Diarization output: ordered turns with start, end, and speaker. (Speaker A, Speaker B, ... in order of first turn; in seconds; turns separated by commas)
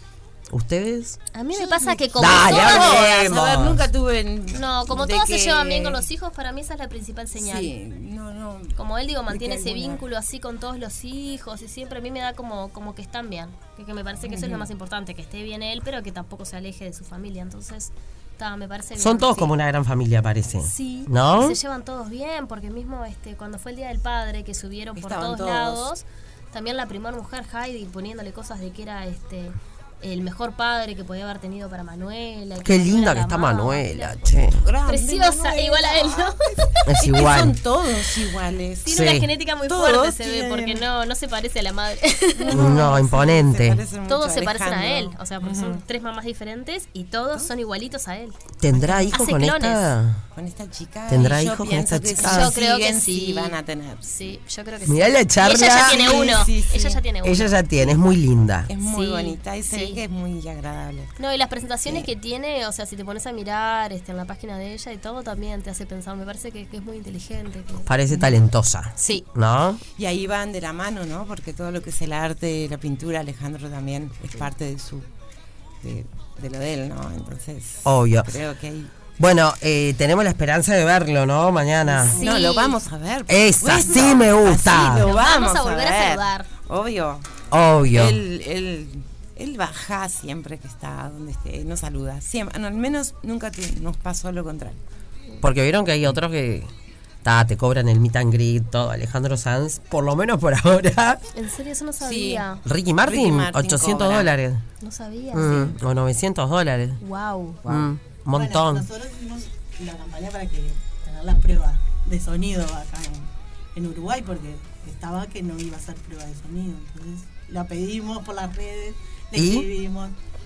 Speaker A: 0.5-1.2, Speaker B: 1.3-3.0, Speaker C: 1.6-6.1, Speaker A: 2.2-3.9, Speaker B: 4.5-7.7, Speaker C: 7.3-8.8, Speaker B: 8.7-19.5, Speaker C: 9.3-10.0, Speaker C: 14.2-14.7, Speaker A: 19.0-21.6, Speaker B: 20.6-34.3, Speaker C: 25.0-25.9, Speaker A: 32.6-34.6, Speaker C: 34.6-39.0, Speaker B: 34.9-36.8, Speaker A: 36.9-37.5, Speaker B: 38.8-43.0, Speaker A: 38.9-39.3, Speaker C: 39.7-40.9, Speaker C: 42.4-45.8, Speaker A: 42.5-43.8, Speaker B: 44.1-48.4, Speaker A: 48.6-50.2, Speaker C: 48.7-49.2, Speaker B: 49.1-49.9, Speaker C: 50.4-54.1, Speaker A: 51.1-52.5, Speaker B: 52.2-57.6, Speaker A: 54.9-56.2, Speaker C: 55.5-57.0, Speaker A: 57.2-58.7, Speaker C: 57.8-58.0, Speaker C: 58.7-61.1, Speaker B: 58.8-60.0, Speaker B: 61.2-67.9, Speaker A: 67.9-69.8, Speaker C: 68.1-68.5, Speaker B: 69.0-69.2, Speaker C: 70.0-75.1, Speaker C: 75.8-78.9, Speaker A: 77.8-78.3, Speaker A: 79.2-82.2, Speaker C: 81.9-87.3, Speaker B: 82.0-82.8, Speaker A: 83.3-85.1, Speaker B: 84.9-86.5, Speaker A: 87.5-88.2, Speaker C: 87.9-94.8, Speaker A: 95.4-96.7, Speaker A: 97.2-101.2, Speaker B: 101.3-102.6, Speaker C: 102.0-102.5, Speaker A: 102.6-104.6, Speaker C: 103.0-104.3, Speaker B: 104.8-105.8, Speaker A: 105.3-107.0, Speaker B: 107.0-107.6, Speaker A: 107.6-108.8, Speaker D: 108.3-120.2, Speaker A: 119.3-119.7